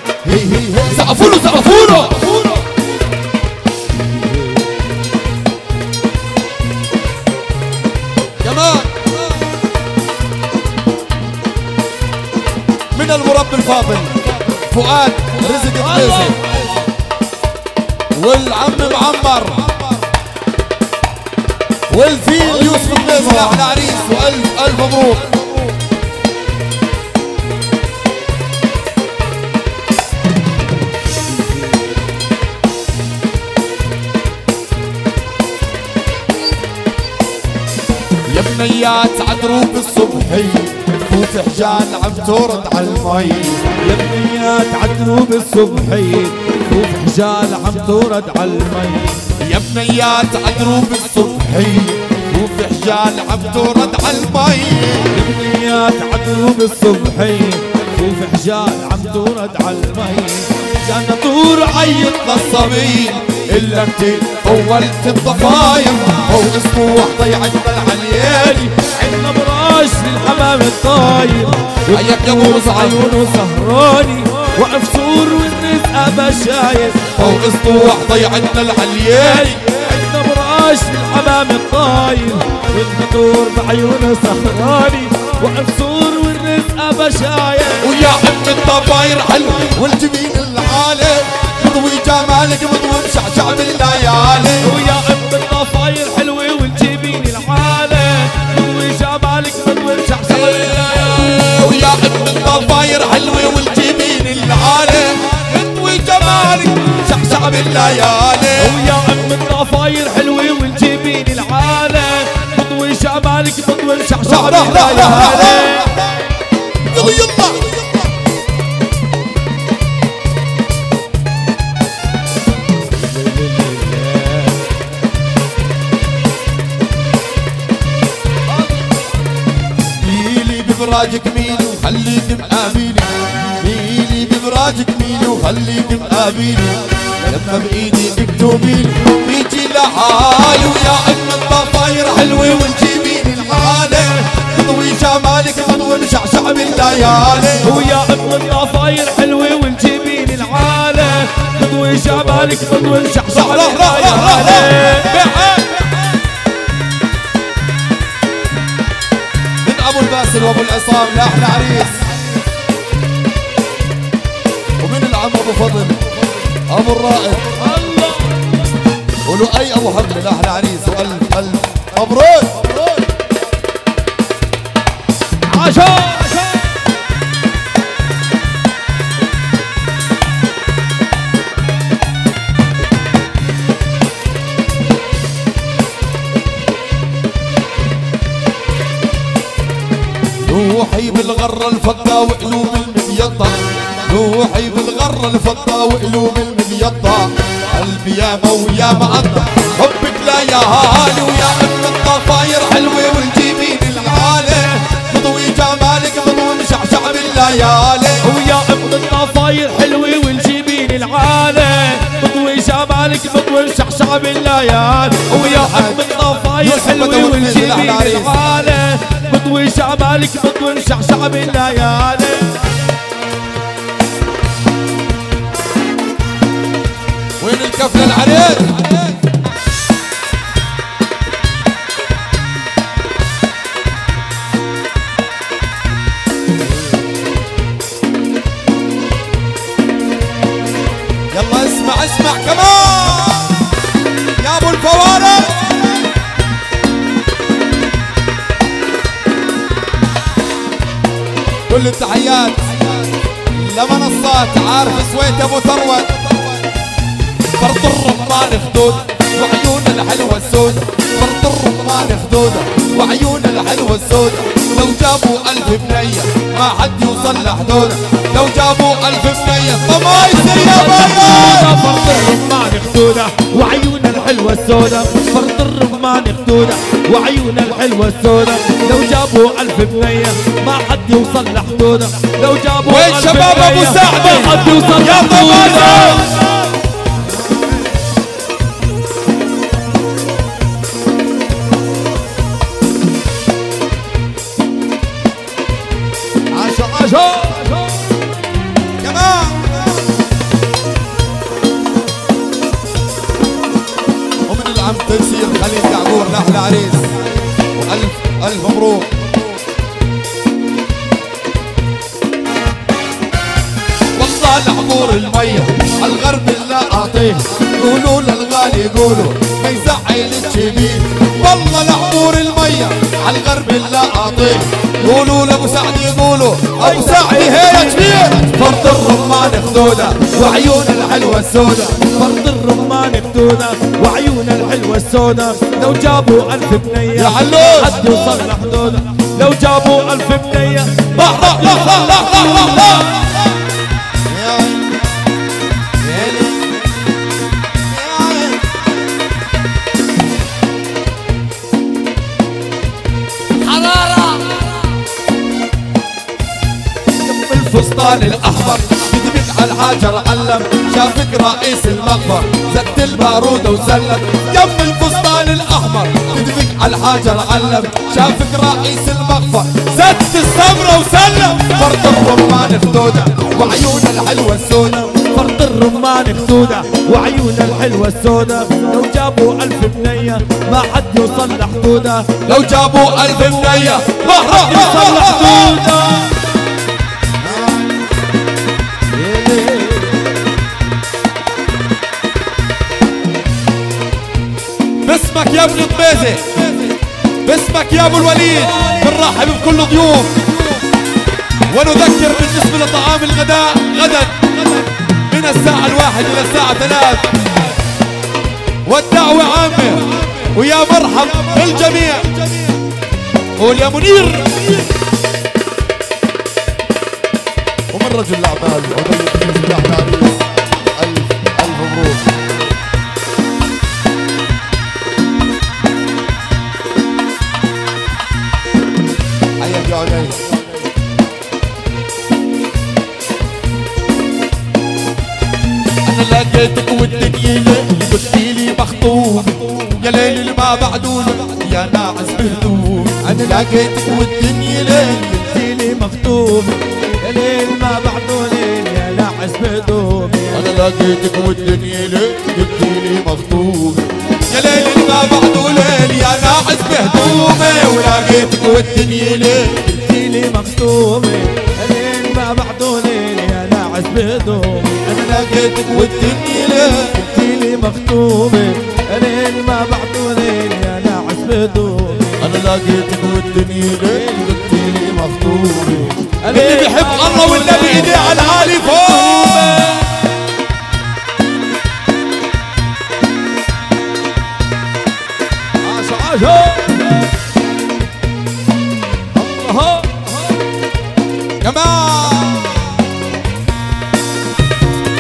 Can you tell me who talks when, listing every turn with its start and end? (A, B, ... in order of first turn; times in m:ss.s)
0:00.2-0:02.6 A
0:08.4-0:09.4 A
0:12.9-0:16.4 A
0:15.8-0:16.4 B
0:18.1-0:19.9 A
0:21.9-0:25.4 A
0:38.3-0:43.6 A
0:43.8-0:49.2 B
0:49.4-0:55.1 A
0:55.1-1:02.6 B
1:02.2-1:08.9 A
1:08.8-1:17.2 B
1:11.9-1:13.1 A
1:17.2-1:19.6 A
1:19.2-1:27.9 B
1:27.8-1:34.7 A
1:34.6-1:40.8 B
1:40.3-1:48.8 A
1:48.6-1:56.0 B
1:54.2-1:56.1 A
1:56.8-1:58.0 A
2:02.9-2:04.7 B
2:09.9-2:27.7 A
2:27.6-2:35.1 B
2:33.3-2:35.9 A
2:39.6-2:42.1 A
2:44.8-2:46.1 A
2:46.7-2:47.6 A
2:47.6-2:48.4 B
2:49.2-2:52.9 A
2:55.5-2:56.6 B
3:10.4-3:28.2 A
3:28.2-3:42.6 B
3:35.3-3:38.4 A
3:47.4-3:49.2 A
4:01.3-4:03.8 A
4:04.3-4:06.1 A
4:11.7-4:13.0 A
4:13.5-4:16.5 A
4:17.6-4:31.9 A
4:30.3-4:46.3 B
4:42.8-4:46.4 A
4:56.5-4:57.8 B
4:59.0-5:00.0 A
5:04.5-5:07.2 A
5:07.7-5:09.2 A
5:14.2-5:32.1 A
5:26.8-5:28.3 B
5:32.0-5:41.2 B
5:37.1-5:38.2 A
5:41.1-5:43.4 A
5:44.2-5:45.0 A
5:46.0-5:46.8 A
5:47.8-5:48.8 A
5:53.6-5:54.8 A
5:57.2-6:15.3 A
6:15.3-6:22.4 B
6:22.4-6:25.9 A
6:24.4-6:26.4 B
6:29.1-6:30.3 B
6:35.0-6:40.8 A
6:41.7-6:47.4 A
6:48.8-6:52.8 A
6:53.6-6:54.9 A
6:57.9-7:02.3 A
7:09.6-7:10.5 A
7:16.0-7:25.5 A
7:23.2-7:23.9 B
7:25.3-7:30.7 B
7:30.5-7:39.9 A
7:39.8-7:45.1 B
7:45.1-7:47.2 A
7:47.1-7:52.4 B
7:52.4-8:00.0 A
7:56.4-8:00.0 B
8:05.8-8:07.2 B
8:09.3-8:10.3 B
8:11.6-8:12.9 A